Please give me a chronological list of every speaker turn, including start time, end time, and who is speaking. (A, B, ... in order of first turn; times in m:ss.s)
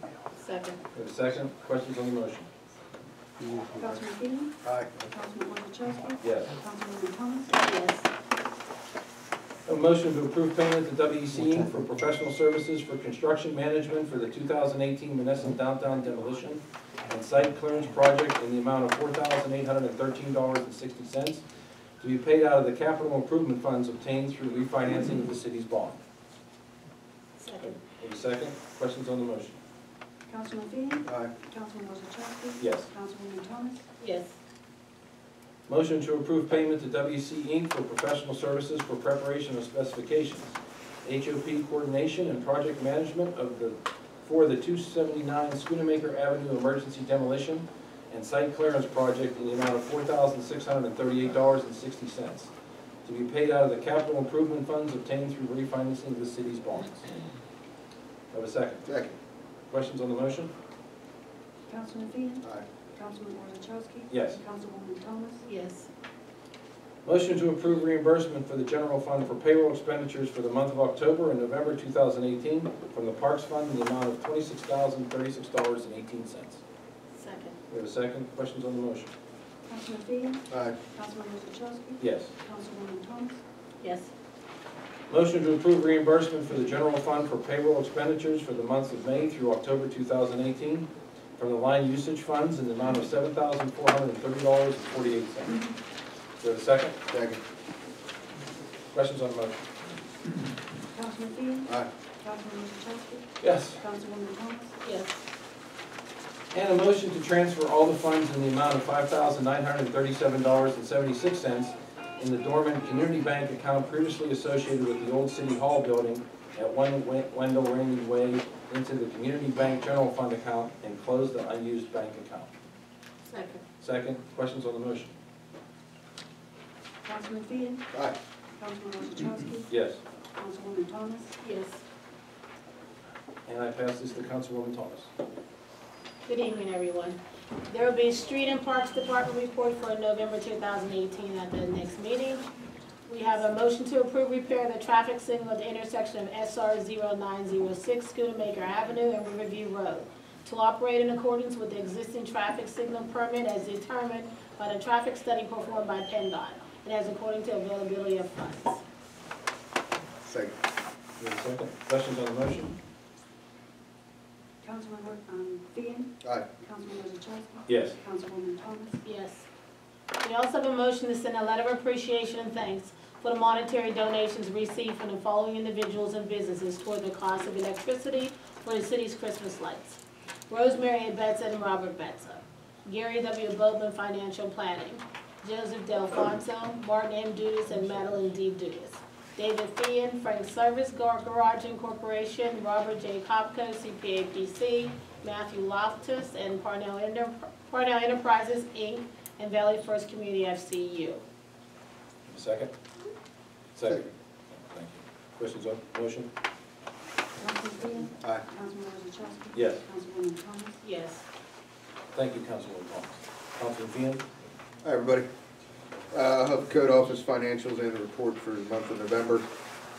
0:00.4-0:00.8 A
0:00.9-0:02.5 B
0:03.4-0:04.0 C
0:03.7-0:04.5 D
0:04.6-0:05.1 C
0:05.1-0:07.6 D
0:06.2-0:06.6 B
0:07.6-0:08.1 A
0:09.6-0:21.4 B
0:22.0-0:26.0 B
0:27.4-0:27.8 A
0:27.6-0:29.6 B
0:30.3-0:33.8 D
0:31.0-0:31.3 C
0:32.6-0:32.9 B
0:34.0-0:34.4 A
0:35.7-0:52.5 B
0:53.0-0:57.0 B
0:58.3-0:58.9 B
0:58.8-0:59.2 C
0:59.7-1:00.5 B
1:01.7-1:05.5 D
1:04.1-1:04.4 B
1:05.4-1:05.9 A
1:07.0-1:16.6 B
1:17.2-1:17.6 A
1:17.7-1:19.1 B
1:19.7-1:23.4 D
1:20.5-1:20.8 C
1:22.0-1:22.3 B
1:23.8-1:24.1 A
1:25.1-1:35.7 B
1:36.4-1:37.0 B
1:37.1-1:37.4 C
1:38.9-1:39.6 B
1:40.9-1:44.8 D
1:43.4-1:43.8 B
1:44.8-1:45.2 A
1:46.5-2:02.5 B
2:03.3-2:03.6 A
2:03.8-2:05.1 B
2:07.0-2:07.8 D
2:08.6-2:09.7 D
2:09.7-2:10.0 B
2:10.4-2:11.4 D
2:11.4-2:11.8 A
2:13.4-2:15.1 B
2:16.3-2:22.4 A
2:23.1-2:38.8 A
2:40.2-2:40.5 C
2:41.2-2:42.7 B
2:44.6-2:49.0 D
2:47.7-2:48.0 B
2:49.0-2:49.4 A
2:50.2-3:00.0 A
3:00.5-3:21.2 A
3:22.3-3:22.7 B
3:23.7-3:24.0 B
3:24.7-3:26.3 B
3:27.4-3:30.8 D
3:29.5-3:29.8 B
3:30.8-3:31.3 A
3:32.1-3:34.2 B
3:34.8-3:35.3 C
3:36.1-3:39.5 C